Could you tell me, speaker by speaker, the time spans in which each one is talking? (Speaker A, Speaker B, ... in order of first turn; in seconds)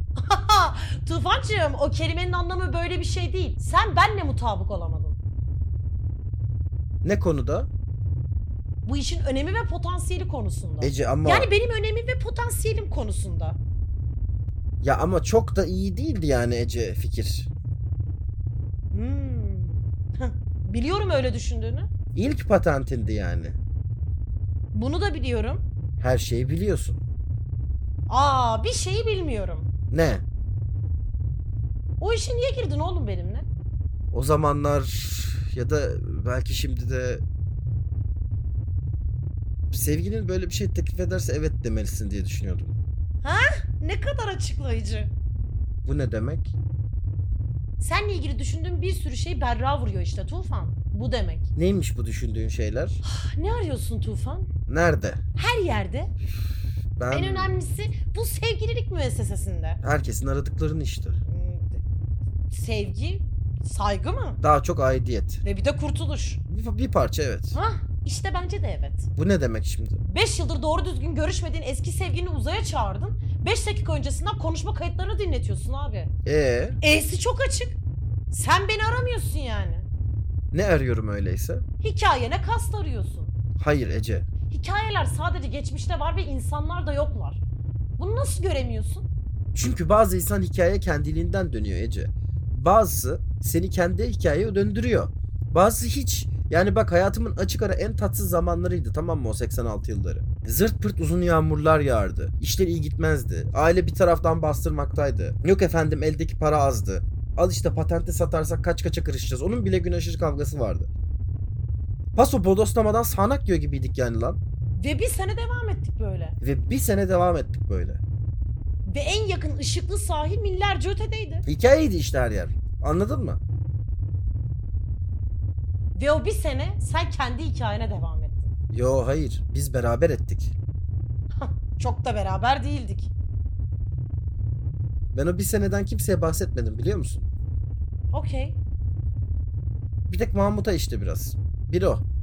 Speaker A: 0.2-5.2, 8.8-13.6, 18.9-21.9, 24.7-25.6, 28.1-29.7, 32.0-33.5, 43.2-45.1, 47.8-51.5, 53.0-54.5, 55.4-56.1, 57.1-59.8, 61.2-61.8, 62.5-64.4, 65.4-66.4, 67.5-69.1, 70.0-76.1, 76.8-77.8, 78.3-79.9, 81.8-83.3, 84.5-87.4, 88.0-89.0, 114.8-116.3, 118.8-121.5, 125.9-128.5, 131.4-133.1, 138.1-138.6
Speaker B: 7.0-7.7, 10.8-11.5, 14.8-17.5, 22.1-23.6, 26.0-27.0, 29.9-30.2, 34.1-37.2, 39.7-42.8, 45.8-46.5, 51.5-53.0, 54.7-55.2, 56.2-57.6, 59.8-61.2, 64.4-65.4, 66.5-67.5, 69.2-70.0, 76.2-76.8, 80.5-81.6, 83.6-84.3, 89.5-110.9, 112.2-114.4, 116.4-118.0, 121.5-123.4, 128.7-130.5, 135.1-137.3, 140.1-142.0